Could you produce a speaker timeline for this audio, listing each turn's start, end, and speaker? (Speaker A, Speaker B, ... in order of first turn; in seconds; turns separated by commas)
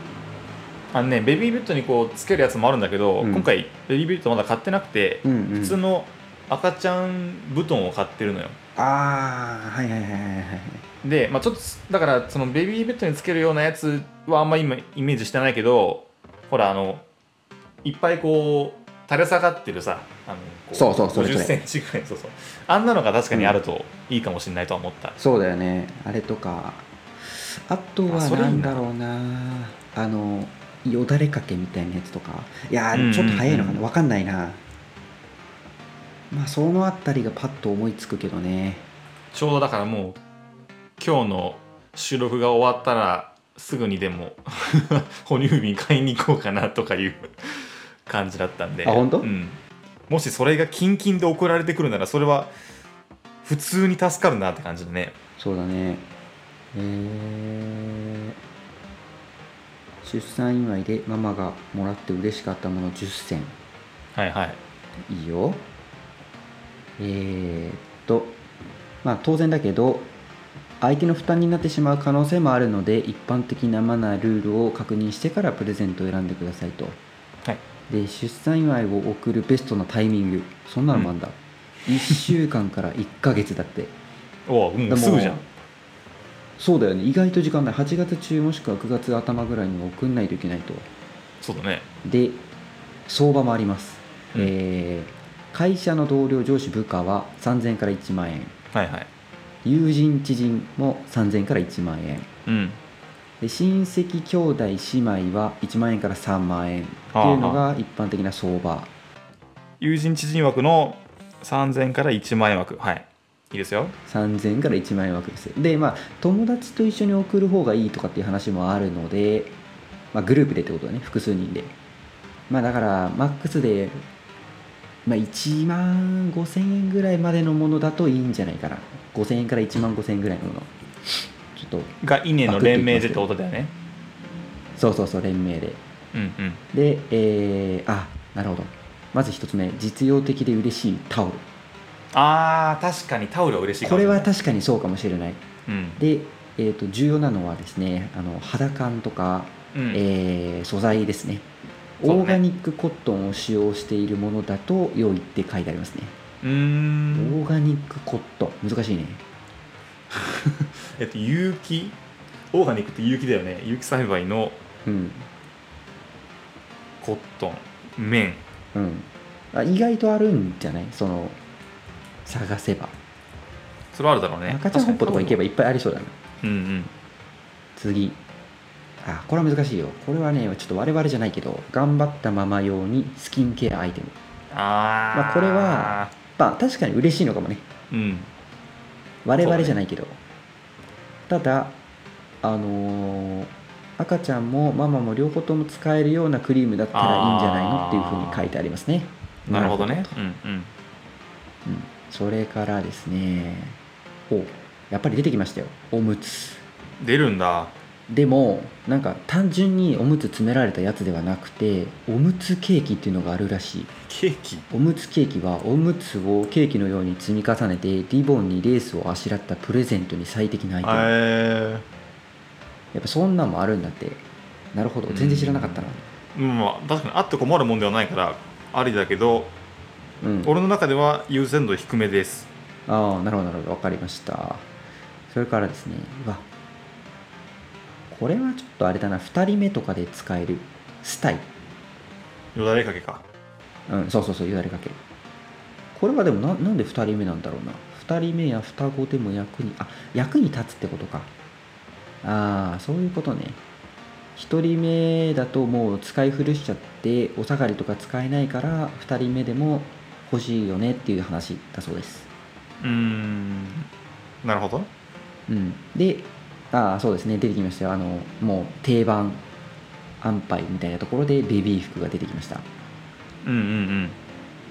Speaker A: 0.9-8.6, Speaker B: 3.2-3.5, Speaker B: 5.2-5.8, Speaker B: 8.8-10.8, Speaker A: 11.0-17.0, Speaker A: 17.8-25.2, Speaker B: 20.7-21.6, Speaker B: 23.3-23.6, Speaker B: 25.2-34.6, Speaker A: 28.1-28.8, Speaker A: 32.9-33.8, Speaker B: 36.3-38.9, Speaker A: 39.3-40.2, Speaker A: 41.0-52.5, Speaker B: 48.8-49.3, Speaker A: 53.4-55.1, Speaker B: 55.4-56.0, Speaker B: 56.7-58.3, Speaker B: 60.0-63.5, Speaker A: 64.1-64.6, Speaker B: 65.1-65.6, Speaker B: 67.0-68.4, Speaker B: 69.0-70.1, Speaker B: 70.8-77.0, Speaker B: 77.9-83.9, Speaker A: 84.5-85.4, Speaker B: 84.9-85.4, Speaker B: 86.6-90.9, Speaker A: 91.4-91.8, Speaker B: 92.0-92.4, Speaker B: 93.1-98.5, Speaker A: 98.7-99.1, Speaker B: 99.6-102.3, Speaker A: 102.5-102.8, Speaker B: 103.4-108.9, Speaker A: 107.1-107.6, Speaker A: 109.8-114.0, Speaker B: 114.1-119.5, Speaker B: 120.1-121.7, Speaker B: 122.5-124.0, Speaker B: 125.0-131.9, Speaker A: 132.0-133.7, Speaker B: 132.4-133.2, Speaker B: 134.8-135.8, Speaker A: 136.1-136.6, Speaker B: 136.7-141.4, Speaker A: 142.1-144.3, Speaker B: 143.8-145.4, Speaker A: 145.7-146.0, Speaker B: 146.0-151.5, Speaker A: 149.7-150.0, Speaker B: 152.0-156.2, Speaker A: 152.0-152.4, Speaker A: 156.4-157.4, Speaker B: 157.1-159.2, Speaker A: 160.1-162.0, Speaker A: 162.5-164.6, Speaker B: 164.8-165.3, Speaker A: 167.0-168.4, Speaker B: 168.7-171.4, Speaker B: 172.2-172.9, Speaker A: 173.9-175.4, Speaker B: 174.4-176.2, Speaker A: 176.4-176.9, Speaker B: 177.8-178.2, Speaker B: 179.0-184.2, Speaker A: 184.5-186.1, Speaker B: 185.1-187.7, Speaker A: 187.9-188.3, Speaker B: 189.2-190.2, Speaker A: 189.4-189.8, Speaker B: 191.3-191.8, Speaker B: 192.4-200.2, Speaker A: 196.9-198.5, Speaker A: 199.5-200.7, Speaker B: 201.6-206.6, Speaker A: 207.0-207.7, Speaker B: 208.1-213.9, Speaker A: 214.1-214.6, Speaker B: 214.7-221.1, Speaker A: 220.8-221.8, Speaker B: 222.9-226.0, Speaker A: 225.1-229.5, Speaker B: 230.2-230.5, Speaker A: 230.4-232.5, Speaker B: 232.9-234.7, Speaker B: 235.3-236.4, Speaker B: 238.1-241.5, Speaker A: 242.5-243.2, Speaker B: 243.9-245.0, Speaker B: 245.9-251.3, Speaker B: 252.2-253.6, Speaker B: 254.3-262.3, Speaker A: 262.8-263.9, Speaker A: 264.4-264.9, Speaker B: 265.5-269.4, Speaker B: 270.2-272.7, Speaker A: 273.4-274.2